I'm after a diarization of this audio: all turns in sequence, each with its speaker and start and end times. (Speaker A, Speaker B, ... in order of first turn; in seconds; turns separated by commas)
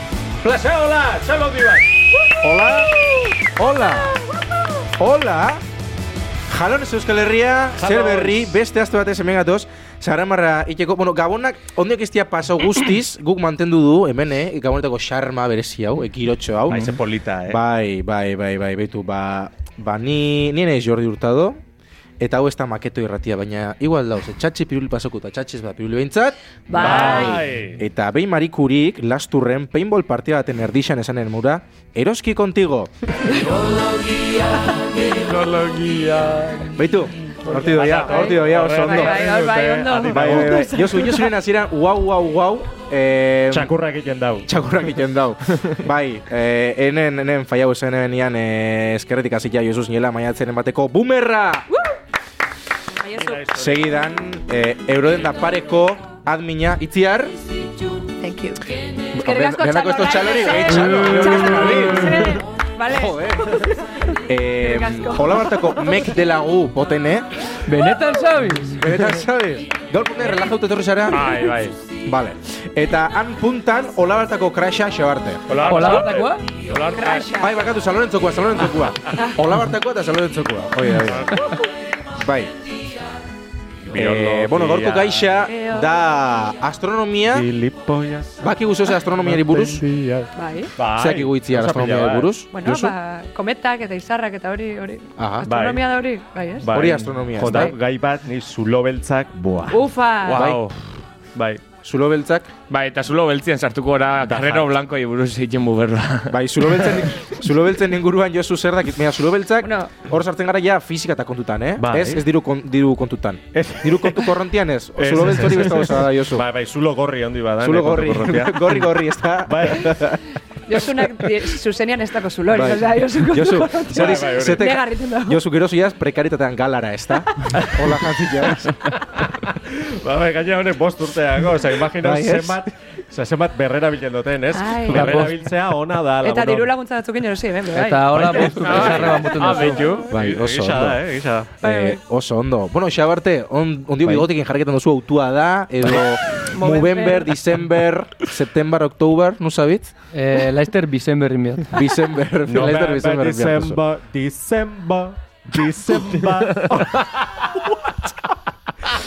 Speaker A: 0.4-2.0, Speaker B: 2.4-2.9, Speaker B: 3.5-4.1, Speaker B: 5.0-5.6, Speaker B: 6.5-17.0, Speaker A: 7.8-8.4, Speaker A: 16.7-17.6, Speaker B: 17.5-21.6, Speaker B: 22.2-32.9, Speaker C: 26.7-27.4, Speaker A: 26.8-27.8, Speaker C: 33.3-33.6, Speaker D: 35.0-36.7, Speaker B: 36.8-39.3, Speaker A: 37.6-41.0, Speaker C: 37.8-41.3, Speaker B: 40.1-43.7, Speaker A: 43.5-44.5, Speaker B: 44.5-51.7, Speaker C: 53.0-53.7, Speaker A: 53.2-53.9, Speaker B: 53.5-57.4, Speaker C: 58.2-63.7, Speaker B: 59.1-63.6, Speaker A: 60.9-61.7, Speaker B: 64.3-67.3, Speaker C: 64.6-65.8, Speaker E: 67.7-68.8, Speaker B: 68.7-71.4, Speaker D: 71.1-71.8, Speaker B: 72.0-75.5, Speaker D: 75.5-77.3, Speaker A: 75.6-76.3, Speaker E: 75.6-76.4, Speaker C: 77.0-77.5, Speaker B: 77.4-81.3, Speaker B: 82.2-82.5, Speaker A: 83.9-85.3, Speaker B: 83.9-87.5, Speaker C: 85.5-85.9, Speaker A: 87.3-88.5, Speaker B: 88.4-89.8, Speaker A: 89.2-92.4, Speaker C: 90.3-90.7, Speaker B: 91.0-93.0, Speaker C: 92.5-96.7, Speaker B: 95.2-95.5, Speaker A: 95.5-95.9, Speaker A: 96.6-99.8, Speaker B: 96.7-97.8, Speaker C: 97.4-97.8, Speaker C: 99.7-100.5, Speaker D: 100.2-100.8, Speaker B: 100.3-100.6, Speaker A: 101.3-101.6, Speaker B: 101.8-102.5, Speaker D: 102.7-107.1, Speaker A: 104.2-104.7, Speaker B: 106.3-116.5, Speaker C: 109.6-109.9, Speaker A: 111.8-112.2, Speaker A: 113.5-114.3, Speaker A: 115.0-118.9, Speaker B: 117.6-120.2, Speaker A: 119.5-120.2, Speaker C: 120.7-125.4, Speaker B: 122.5-128.8, Speaker A: 123.9-124.8, Speaker A: 128.9-136.7, Speaker B: 132.0-132.6, Speaker C: 134.5-135.3, Speaker E: 134.9-135.4, Speaker C: 136.2-138.7, Speaker E: 137.7-140.0, Speaker A: 138.2-139.3, Speaker D: 138.2-140.1, Speaker C: 139.5-140.1, Speaker B: 140.1-141.0, Speaker A: 140.1-141.5, Speaker B: 141.6-149.9, Speaker C: 141.6-142.0, Speaker C: 146.5-147.3, Speaker E: 150.1-151.8, Speaker B: 151.7-153.8, Speaker A: 152.5-157.6